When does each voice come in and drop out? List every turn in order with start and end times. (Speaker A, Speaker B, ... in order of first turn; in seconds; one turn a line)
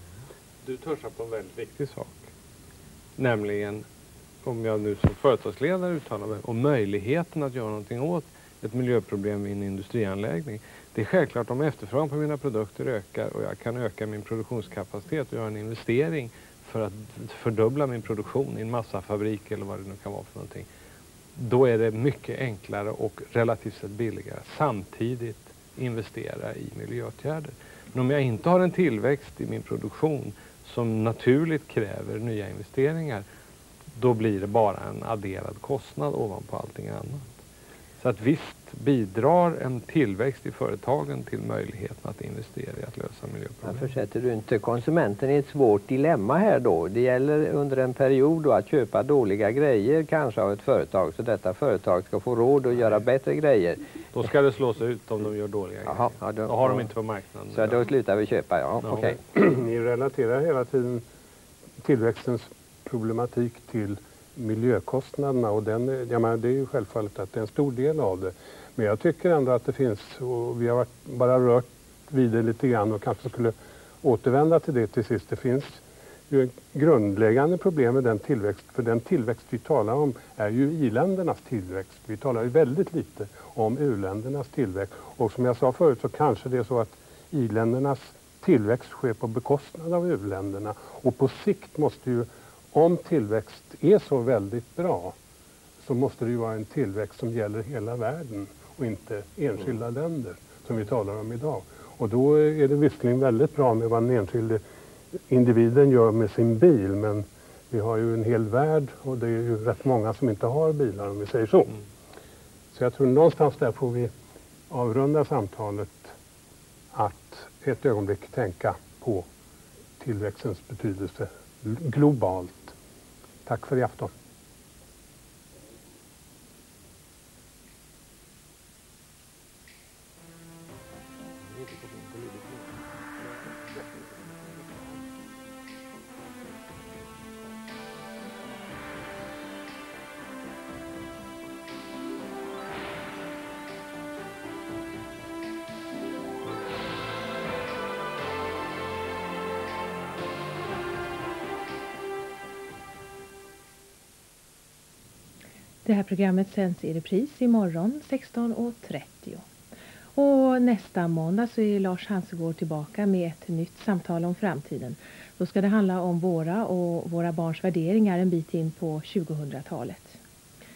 Speaker A: 0.6-2.3
Speaker A: 3.2-3.9
Speaker A: 4.4-20.7
Speaker A: 21.4-33.2
Speaker A: 34.0-37.3
Speaker A: 38.0-43.8
Speaker B: 43.6-53.8
Speaker A: 54.1-57.9
Speaker B: 55.9-56.9
Speaker B: 57.5-59.2
Speaker A: 58.8-59.2
Speaker C: 59.3-61.0
Speaker C: 61.8-95.2
Speaker C: 95.8-104.6
Speaker C: 105.3-111.8
Speaker C: 112.7-114.1
Speaker C: 114.7-116.2
Speaker C: 116.9-119.3
Speaker C: 120.0-122.8
Speaker C: 123.5-124.1
Speaker B: 131.5-132.7
Speaker D: 155.8-159.4
Speaker D: 160.2-170.2